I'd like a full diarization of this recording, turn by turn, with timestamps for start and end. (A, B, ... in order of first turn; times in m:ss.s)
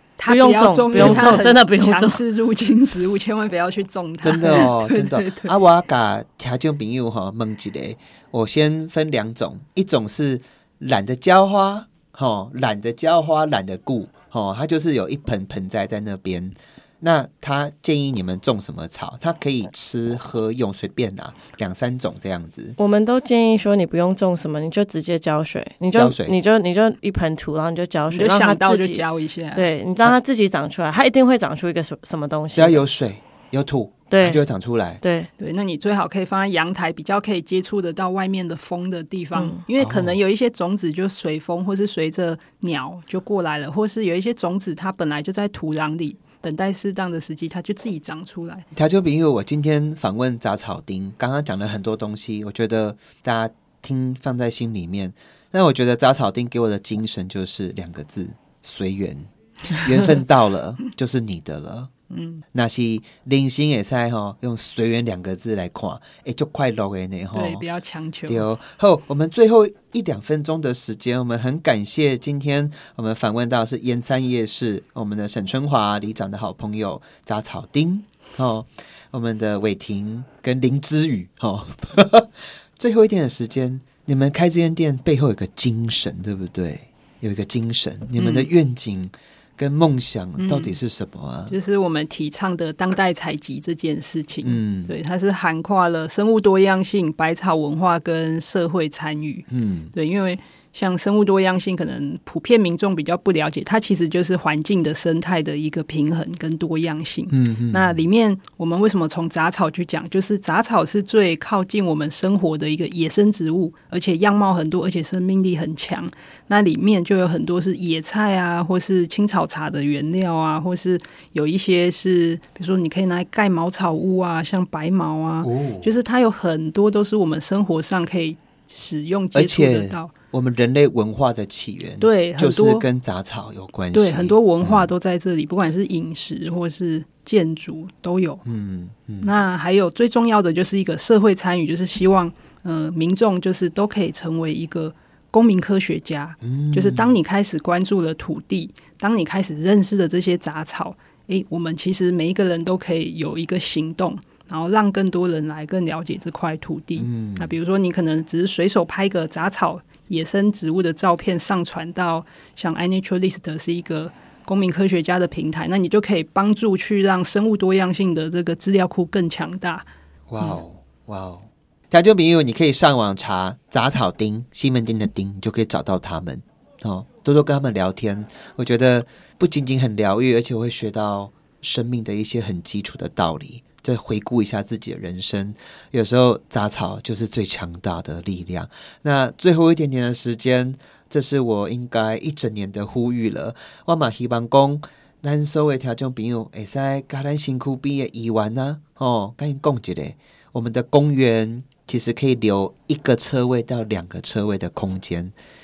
0:00.2-0:05.5 A
0:00.3-0:02.2 B
0:00.9-0:01.4 C
0:04.2-0:22.8 C
0:22.8-0:32.8 B
0:25.9-0:26.4 C
0:28.1-0:29.6 A
0:32.5-0:35.0 C
0:34.1-0:34.4 B
0:35.0-0:35.3 B
0:35.4-0:48.6 A
0:39.3-0:39.6 B
0:39.8-0:40.2 C
0:48.7-1:01.9 C
1:02.1-1:02.4 A
1:02.5-1:07.6 C
1:07.3-1:08.4 A
1:08.3-1:31.5 C
1:28.2-1:28.5 A
1:30.4-1:30.8 A
1:31.5-2:10.1 A
1:34.4-1:34.9 C
1:39.5-1:39.9 C
1:47.3-1:48.0 C
2:05.4-2:05.9 C
2:09.3-2:14.9 C
2:12.0-2:12.8 A
2:13.9-2:18.4 A
2:18.4-2:19.3 C
2:19.2-2:49.9 A
2:26.4-2:27.2 C
2:37.0-2:37.5 C
2:50.3-3:25.3 C